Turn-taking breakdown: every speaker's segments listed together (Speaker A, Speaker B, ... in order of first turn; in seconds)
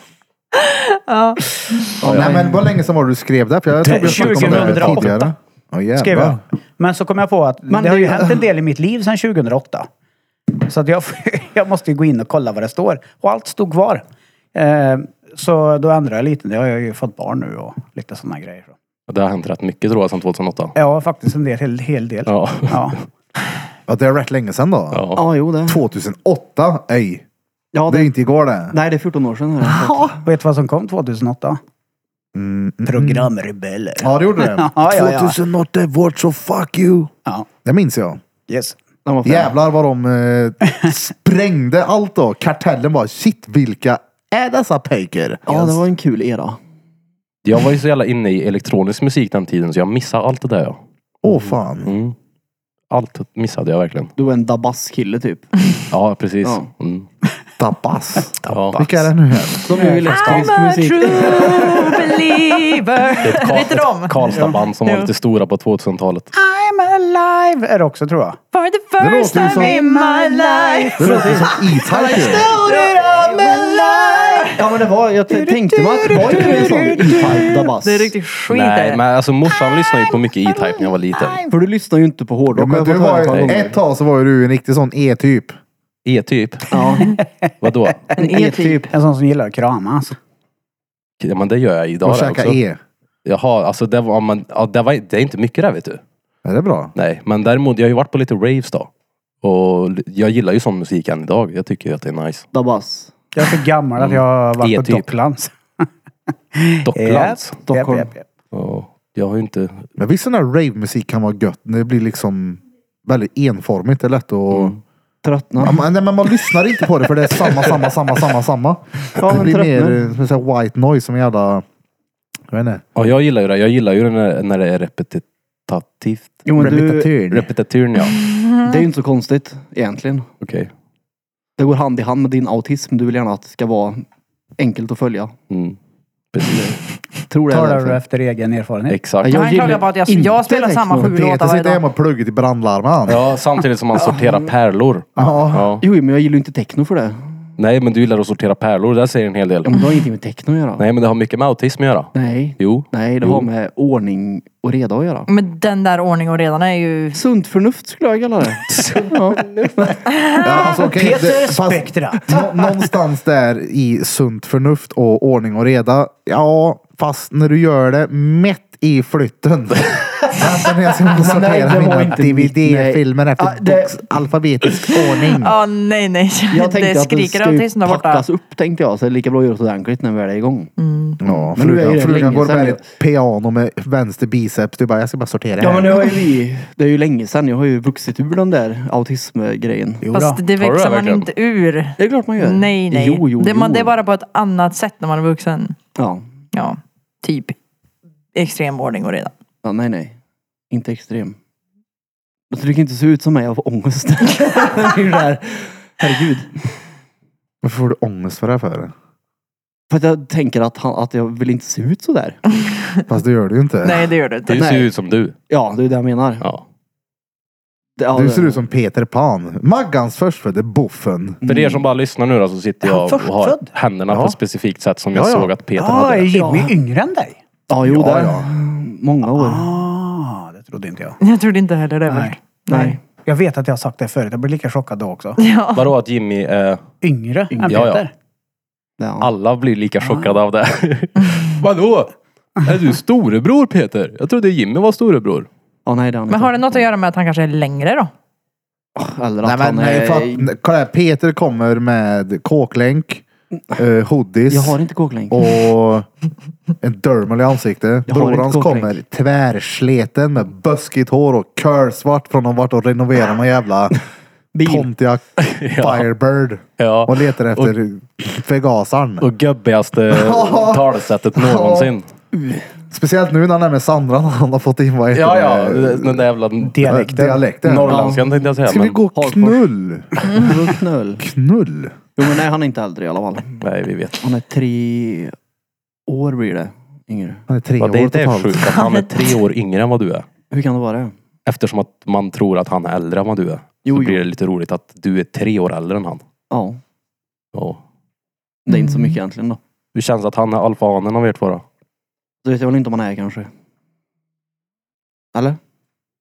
Speaker A: 0.6-2.0, 60.1-64.2, 64.8-65.1, 68.5-74.7, 76.2-79.0, 80.7-81.5, 88.2-88.8, 128.0-128.8, 139.3-141.8, 155.3-157.2, 160.1-160.4, 175.3-178.3, 180.8-181.2, 190.1-195.8, 196.5-197.6, 198.3-199.3, 212.6-213.0, 213.8-214.7, 231.2-233.0, 235.4-235.9, 246.3-248.1, 288.7-289.1, 298.7-299.2
Speaker B: 2.0-2.5, 7.7-8.4, 25.1-25.8, 27.7-28.1, 28.7-30.1, 39.0-39.5, 45.5-46.6, 54.2-55.5, 59.6-62.2, 74.6-78.1, 81.5-83.8, 86.7-87.2, 88.2-88.9, 102.5-103.1, 107.7-108.1, 115.2-115.9, 119.2-120.0, 126.5-127.1, 128.7-130.3, 131.6-134.1, 134.6-135.3, 136.4-138.0, 139.2-141.1, 143.9-144.5, 145.8-147.3, 149.7-150.8, 152.2-155.3, 157.2-160.1, 171.1-174.1, 176.5-180.7, 181.3-182.8, 185.6-190.1, 192.0-193.9, 196.0-196.2, 199.6-200.2, 200.7-201.4, 202.5-206.7, 209.9-212.4, 214.6-214.9, 215.5-216.4, 218.0-218.6, 221.4-221.8, 226.3-226.7, 227.7-229.7, 232.7-233.0, 237.5-237.8, 239.0-239.3, 245.9-246.8, 249.0-250.5, 254.5-255.4, 258.1-259.0, 264.5-264.9, 277.9-278.4, 279.1-279.6, 280.2-281.3, 282.2-283.6, 284.2-285.4, 286.1-287.4, 290.5-291.1, 293.9-294.2, 296.5-296.8, 298.7-299.6, 302.4-303.5
Speaker C: 2.0-6.4, 23.9-25.1, 25.7-27.2, 27.9-28.8, 29.6-30.2, 32.4-33.3, 34.0-37.1, 37.6-38.2, 39.2-45.9, 51.2-51.9, 57.6-59.7, 69.0-69.8, 71.0-72.5, 82.5-85.6, 92.0-92.8, 96.5-96.9, 110.0-114.8, 115.6-121.6, 122.5-122.8, 126.6-127.5, 141.0-143.2, 145.2-145.8, 160.4-175.6, 181.2-186.1, 207.6-208.9, 213.1-214.1, 218.1-221.4, 224.1-224.4, 225.1-225.5, 227.8-228.5, 249.4-254.8, 255.3-256.1, 256.8-264.0, 264.6-269.3, 270.1-271.9, 272.9-276.2, 276.8-278.1, 278.7-280.6, 281.2-281.9, 287.5-288.7
Speaker D: 3.8-5.3, 6.0-9.9, 10.6-18.8, 20.8-23.0, 30.2-31.6, 32.9-35.4, 38.5-38.8, 59.7-61.8, 66.3-68.4, 69.4-74.5, 75.3-77.5, 87.1-87.5, 88.2-90.2, 103.3-105.9, 106.5-108.2, 137.5-139.0, 160.7-162.4, 190.1-190.4, 222.8-223.7, 225.8-227.4, 229.3-231.2, 232.1-232.4, 233.3-235.4, 237.0-238.1, 276.6-277.4
Speaker E: 4.0-5.1, 19.1-20.8, 22.3-23.0, 24.9-25.2, 47.5-50.8, 51.9-52.1, 52.9-54.1, 55.9-57.1, 58.5-58.8, 63.2-66.3, 78.5-81.4, 86.0-86.8, 87.6-88.1, 91.2-92.6, 93.2-96.0, 97.0-98.9, 99.4-102.5, 104.0-105.1, 106.9-107.6, 108.5-109.9, 114.5-114.8, 123.0-126.8, 127.3-128.2, 130.4-130.7, 135.5-135.8, 136.3-136.9, 138.9-139.4, 143.1-145.8, 147.6-149.8, 150.8-153.5, 158.7-159.7, 190.6-191.3, 214.5-215.3, 221.4-226.3, 235.8-236.8, 237.7-238.0, 239.2-245.5, 265.4-266.1, 266.8-267.7, 269.2-272.1, 275.1-276.8, 277.6-279.0, 283.6-284.2, 287.8-290.3, 291.5-296.2, 297.5-297.8, 299.9-301.6